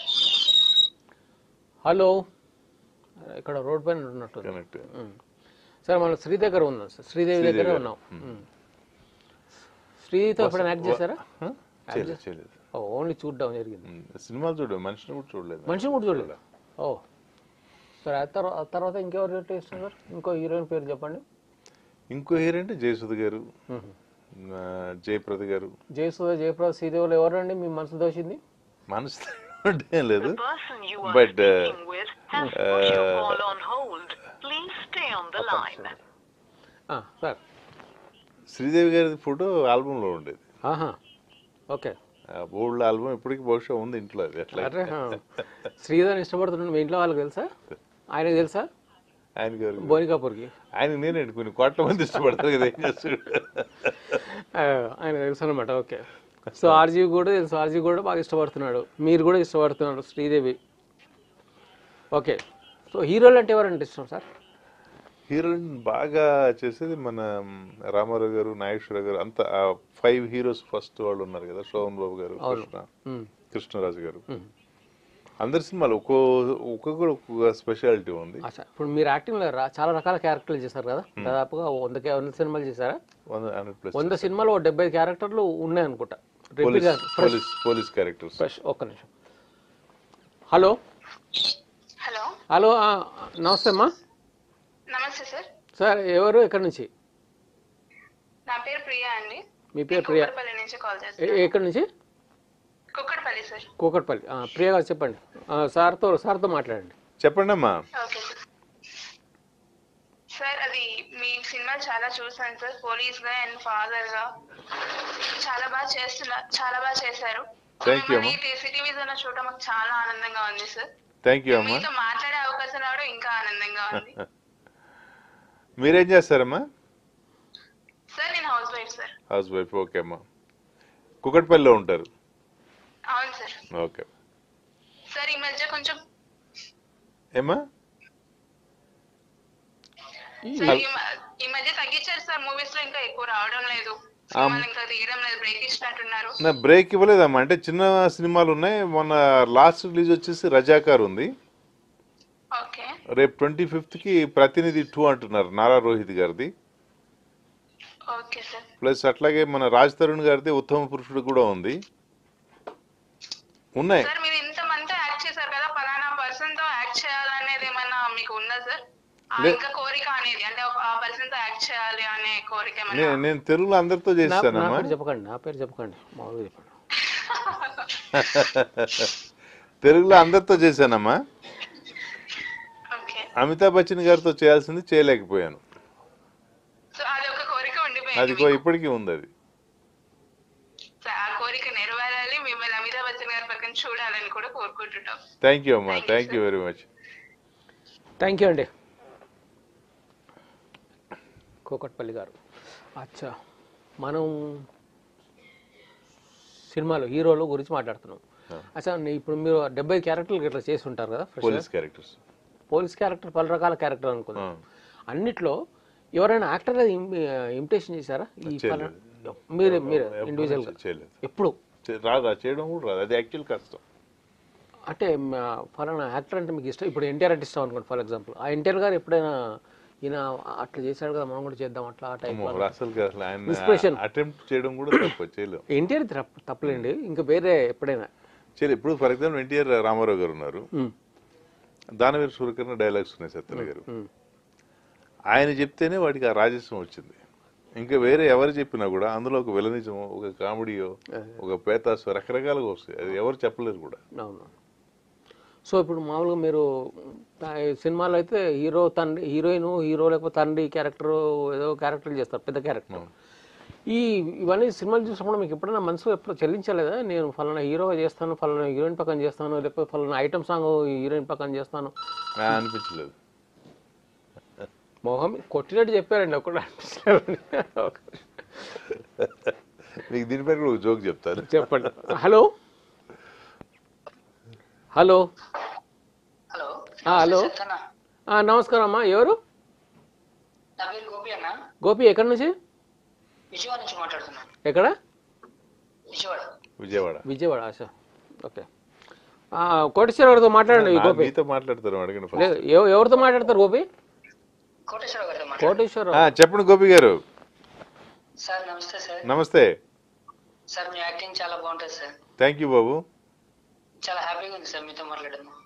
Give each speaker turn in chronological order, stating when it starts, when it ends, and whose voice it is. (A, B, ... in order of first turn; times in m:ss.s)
0:01.8-0:02.2 A
0:03.2-0:05.2 A
0:04.4-0:04.8 B
0:05.8-0:08.4 A
0:07.3-0:08.4 B
0:10.0-0:11.2 A
0:10.4-0:12.6 B
0:11.9-0:12.2 A
0:12.7-0:13.9 A
0:13.9-0:16.4 B
0:15.7-0:17.0 A
0:18.0-0:21.2 A
0:22.1-0:23.5 B
0:23.7-0:23.9 A
0:24.4-0:25.7 B
0:25.9-0:28.4 A
0:28.9-0:30.4 B
0:30.2-0:35.9 C
0:31.0-0:31.7 B
0:32.5-0:33.4 B
0:35.4-0:35.8 B
0:36.9-0:37.4 A
0:38.5-0:40.4 B
0:40.6-0:41.0 A
0:42.3-0:45.4 B
0:44.5-0:47.5 A
0:48.1-0:48.7 A
0:49.4-0:50.0 B
0:49.8-0:50.5 A
0:50.7-0:54.2 B
0:54.1-1:00.6 A
1:02.1-1:02.4 A
1:02.9-1:04.2 A
1:05.3-1:12.9 B
1:12.4-1:13.3 A
1:13.5-1:14.2 B
1:15.4-1:18.4 B
1:18.4-1:23.0 A
1:23.3-1:24.4 B
1:23.9-1:27.4 A
1:26.6-1:28.4 B
1:28.4-1:29.1 A
1:30.5-1:30.8 A
1:32.0-1:32.3 D
1:32.5-1:33.9 A
1:34.9-1:35.5 D
1:35.8-1:36.9 A
1:38.5-1:41.5 D
1:39.7-1:40.3 A
1:41.2-1:41.9 A
1:42.9-1:43.7 D
1:43.8-1:46.9 A
1:47.2-1:47.8 B
1:48.0-1:48.4 D
1:50.3-1:54.3 D
1:55.2-2:00.8 D
1:57.8-1:58.4 B
2:01.2-2:01.9 B
2:01.5-2:04.2 D
2:03.9-2:04.2 B
2:05.8-2:06.6 B
2:08.1-2:09.1 D
2:09.3-2:10.2 B
2:11.2-2:12.1 B
2:13.1-2:13.6 D
2:13.7-2:14.1 B
2:15.1-2:16.0 D
2:20.4-2:20.8 A
2:20.6-2:26.4 D
2:24.4-2:24.6 B
2:26.4-2:31.3 B
2:32.5-2:32.9 D
2:33.1-2:36.5 B
2:38.1-2:38.6 D
2:38.8-2:41.8 B
2:43.8-2:44.1 B
2:44.0-2:48.8 D
2:49.4-2:53.2 D
2:52.9-2:54.9 B
2:54.3-2:56.7 A
2:57.1-2:58.0 D
2:58.1-2:59.1 B
2:59.8-3:01.2 B
3:02.9-3:03.3 D
3:03.3-3:05.6 B
3:06.9-3:08.6 D
3:08.1-3:09.3 B
3:11.0-3:15.2 D
3:15.4-3:16.8 B
3:15.9-3:16.4 D
3:18.2-3:18.7 A
3:21.7-3:22.4 A
3:23.0-3:23.3 A
3:24.0-3:24.6 A
3:26.7-3:28.2 A
3:28.8-3:31.7 A
3:31.4-3:32.2 B
3:32.7-3:34.5 A
3:34.4-3:34.6 B
3:35.1-3:35.6 A
3:36.2-3:41.5 A
3:38.4-3:41.2 B
3:41.8-3:43.8 B
3:44.9-3:52.7 A
3:52.3-3:55.6 B
3:53.4-3:54.0 A
3:55.7-3:58.1 A
3:58.6-4:00.7 B
4:02.0-4:03.8 B
4:03.5-4:04.1 A
4:05.3-4:07.2 B
4:07.8-4:14.0 B
4:14.2-4:14.5 A
4:15.7-4:23.0 A
4:23.9-4:31.9 A
4:32.4-4:33.1 B
4:35.0-4:38.8 A
4:39.2-4:41.9 B
4:41.5-4:42.5 A
4:44.9-4:45.2 A
4:46.5-4:47.8 E
4:47.1-4:47.5 A
4:48.3-4:49.4 A
4:50.8-4:51.5 E
4:51.8-4:52.5 A
4:53.5-4:54.5 E
4:54.6-4:54.9 A
4:56.1-4:56.4 E
4:56.8-4:57.2 B
4:57.2-4:57.9 A
4:59.6-5:01.3 A
5:00.7-5:02.6 B
5:02.4-5:03.9 A
5:04.9-5:05.8 E
5:05.6-5:06.3 A
5:06.1-5:07.2 B
5:08.4-5:09.3 E
5:09.2-5:09.8 B
5:10.7-5:12.1 E
5:12.4-5:13.0 B
5:14.0-5:15.5 E